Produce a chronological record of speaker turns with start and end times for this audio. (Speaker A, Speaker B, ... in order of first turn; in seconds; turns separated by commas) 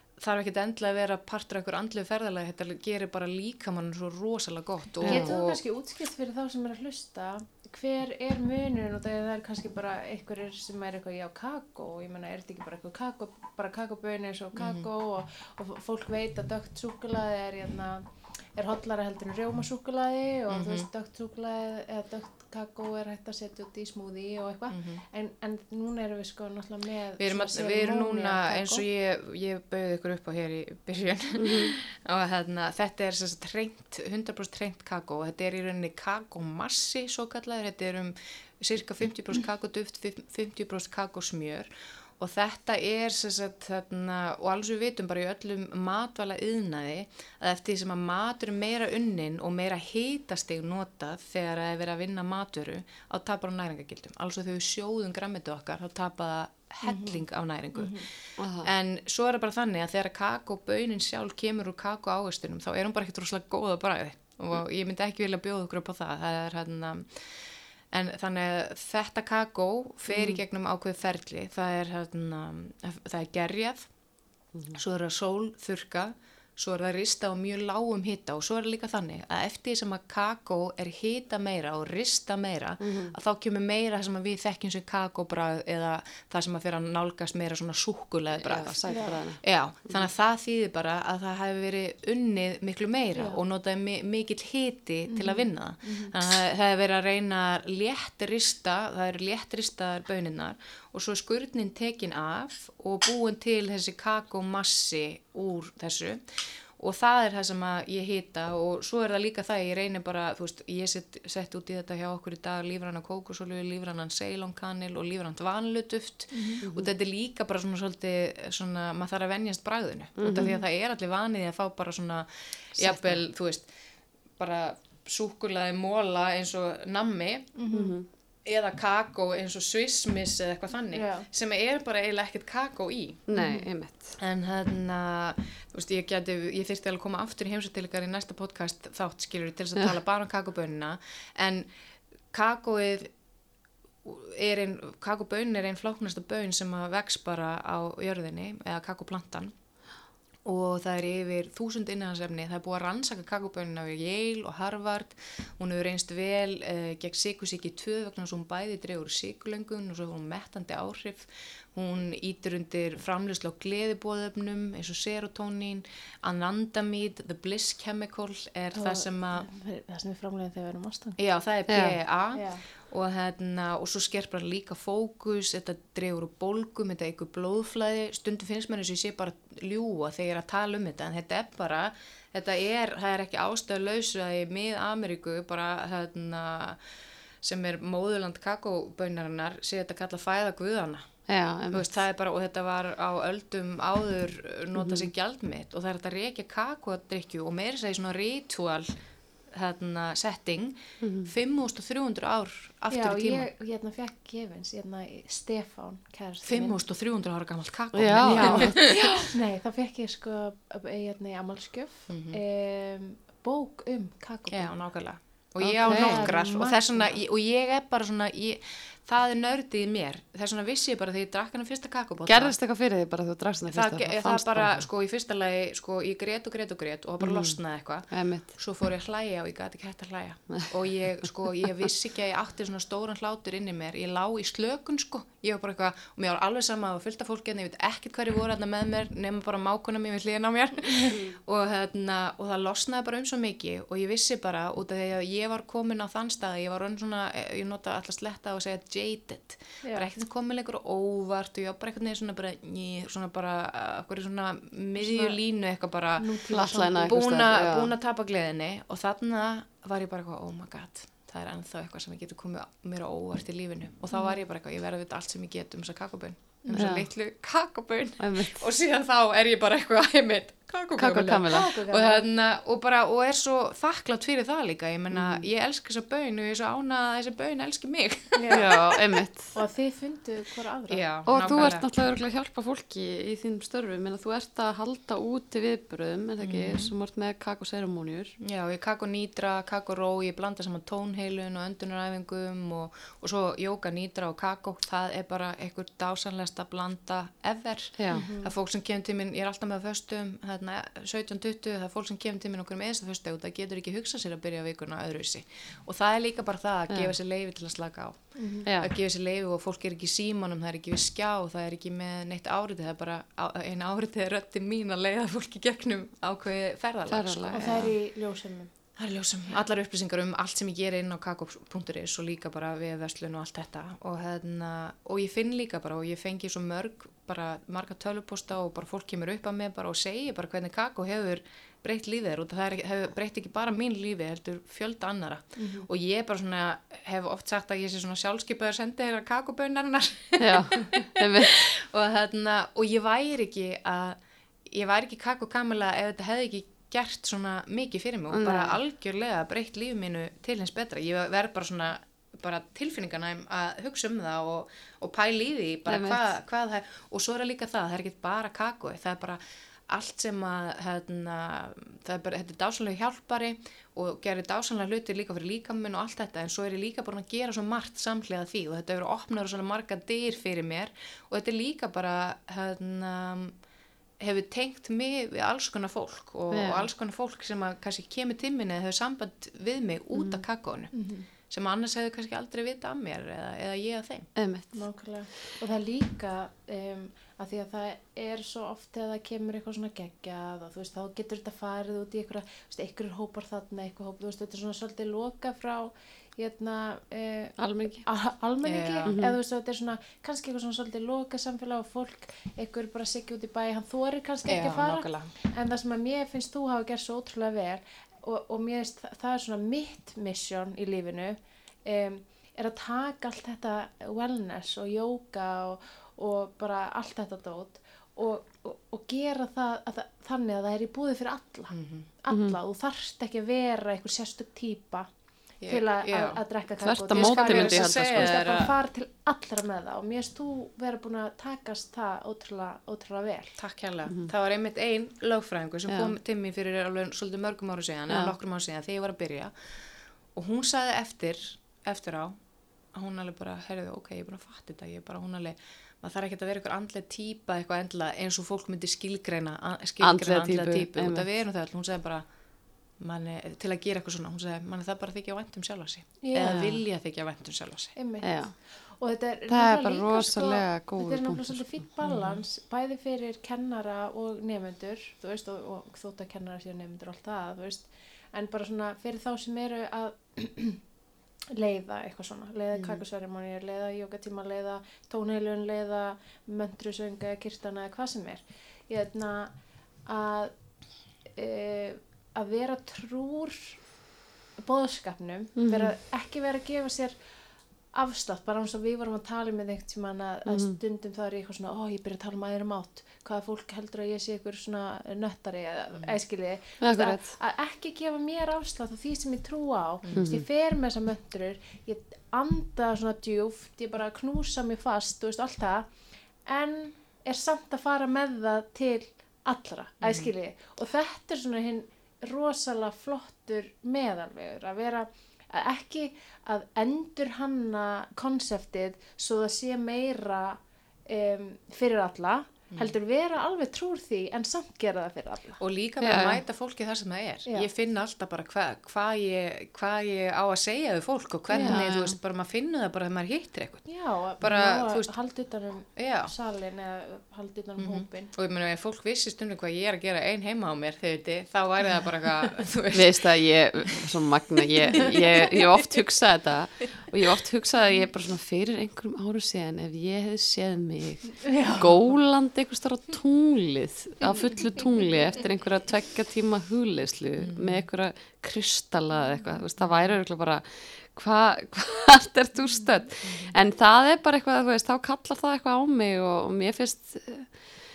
Speaker A: 0.2-5.6, Speaker B: 5.0-5.3, Speaker C: 5.0-28.8, Speaker A: 14.6-14.9, Speaker A: 20.5-20.9, Speaker A: 24.7-25.0, Speaker A: 27.2-67.3, Speaker B: 31.4-31.7, Speaker C: 56.8-57.2, Speaker C: 57.7-58.1, Speaker B: 58.4-58.7, Speaker A: 67.9-73.9, Speaker B: 70.1-70.4, Speaker A: 74.7-123.7, Speaker B: 82.8-83.1, Speaker B: 88.4-89.4, Speaker C: 88.9-89.2, Speaker C: 93.1-93.4, Speaker C: 95.1-96.1, Speaker C: 116.3-116.6, Speaker B: 116.6-116.9, Speaker B: 120.2-120.5, Speaker C: 120.3-120.6, Speaker B: 122.8-123.2, Speaker A: 124.4-127.5, Speaker C: 127.5-127.9, Speaker B: 127.7-128.1, Speaker A: 128.4-133.2, Speaker C: 130.9-131.3, Speaker B: 133.3-134.2, Speaker C: 133.3-133.7, Speaker A: 134.2-141.7, Speaker A: 142.3-143.1, Speaker A: 144.0-149.5, Speaker A: 150.4-169.5, Speaker C: 168.7-171.2, Speaker A: 171.2-186.8, Speaker B: 171.7-172.0, Speaker C: 172.3-172.6, Speaker A: 187.4-191.1, Speaker B: 191.3-191.9, Speaker A: 191.7-198.9, Speaker B: 194.8-195.1, Speaker A: 199.5-203.5, Speaker B: 201.0-201.3, Speaker C: 202.9-206.8, Speaker A: 206.4-209.2, Speaker B: 207.9-208.9, Speaker C: 208.2-214.7, Speaker A: 212.1-212.4, Speaker A: 214.5-222.6, Speaker C: 215.6-217.2, Speaker B: 215.7-216.3, Speaker B: 222.2-224.9, Speaker A: 223.7-279.0, Speaker B: 227.2-227.6, Speaker B: 228.1-228.5, Speaker C: 240.8-241.2, Speaker C: 249.8-250.1, Speaker C: 254.9-255.4, Speaker C: 256.2-257.2, Speaker B: 256.5-257.9, Speaker C: 264.1-264.4, Speaker B: 266.7-267.1, Speaker B: 268.2-268.6, Speaker B: 271.0-271.7, Speaker C: 271.5-272.2, Speaker B: 275.1-275.4, Speaker C: 278.3-278.7, Speaker B: 278.5-279.6, Speaker C: 279.5-281.1, Speaker A: 280.9-281.9, Speaker B: 281.3-288.3, Speaker A: 286.4-286.9, Speaker A: 288.4-317.9, Speaker B: 298.0-298.3, Speaker C: 298.1-298.5, Speaker C: 308.4-308.7, Speaker B: 308.7-308.9, Speaker B: 317.1-317.9, Speaker C: 317.5-318.7, Speaker A: 318.9-373.5, Speaker C: 335.6-335.9, Speaker B: 340.4-341.6, Speaker B: 348.3-348.8, Speaker B: 355.9-356.2, Speaker A: 374.2-380.9, Speaker B: 376.5-376.9, Speaker B: 380.1-380.4, Speaker C: 380.9-381.3, Speaker A: 381.5-384.3, Speaker B: 384.4-384.8, Speaker C: 384.7-425.1, Speaker B: 397.6-398.1, Speaker A: 398.6-399.2, Speaker B: 399.1-399.4, Speaker A: 404.4-405.3, Speaker A: 421.7-422.1, Speaker B: 422.3-422.6, Speaker A: 425.6-426.4, Speaker C: 425.7-433.6, Speaker B: 426.8-428.4, Speaker A: 427.2-428.7, Speaker A: 433.6-439.5, Speaker B: 435.9-436.1, Speaker B: 438.1-438.3, Speaker A: 440.3-442.4, Speaker A: 442.9-452.2, Speaker B: 450.0-451.3, Speaker A: 453.0-457.9, Speaker C: 456.2-456.6, Speaker B: 456.4-456.8, Speaker C: 457.9-458.4, Speaker B: 458.2-458.5, Speaker C: 459.0-470.8, Speaker B: 459.5-461.6, Speaker A: 462.0-462.4, Speaker C: 471.5-479.5, Speaker B: 472.7-473.0, Speaker C: 480.1-480.5, Speaker C: 481.4-483.8, Speaker C: 484.6-487.1, Speaker B: 485.6-485.9, Speaker C: 487.9-505.9, Speaker B: 490.5-490.8, Speaker B: 496.8-497.3, Speaker A: 500.0-500.3, Speaker B: 500.1-500.4, Speaker C: 506.4-525.6, Speaker A: 510.0-510.3, Speaker A: 525.6-533.8, Speaker B: 526.0-526.4, Speaker C: 531.5-531.9, Speaker B: 531.5-532.2, Speaker C: 533.9-538.3, Speaker A: 534.4-535.1, Speaker A: 536.0-536.3, Speaker A: 537.8-543.3, Speaker B: 542.9-567.6, Speaker A: 544.9-545.7, Speaker C: 551.4-552.0, Speaker C: 554.2-555.5, Speaker A: 557.4-557.9, Speaker A: 559.8-560.2, Speaker A: 563.2-563.5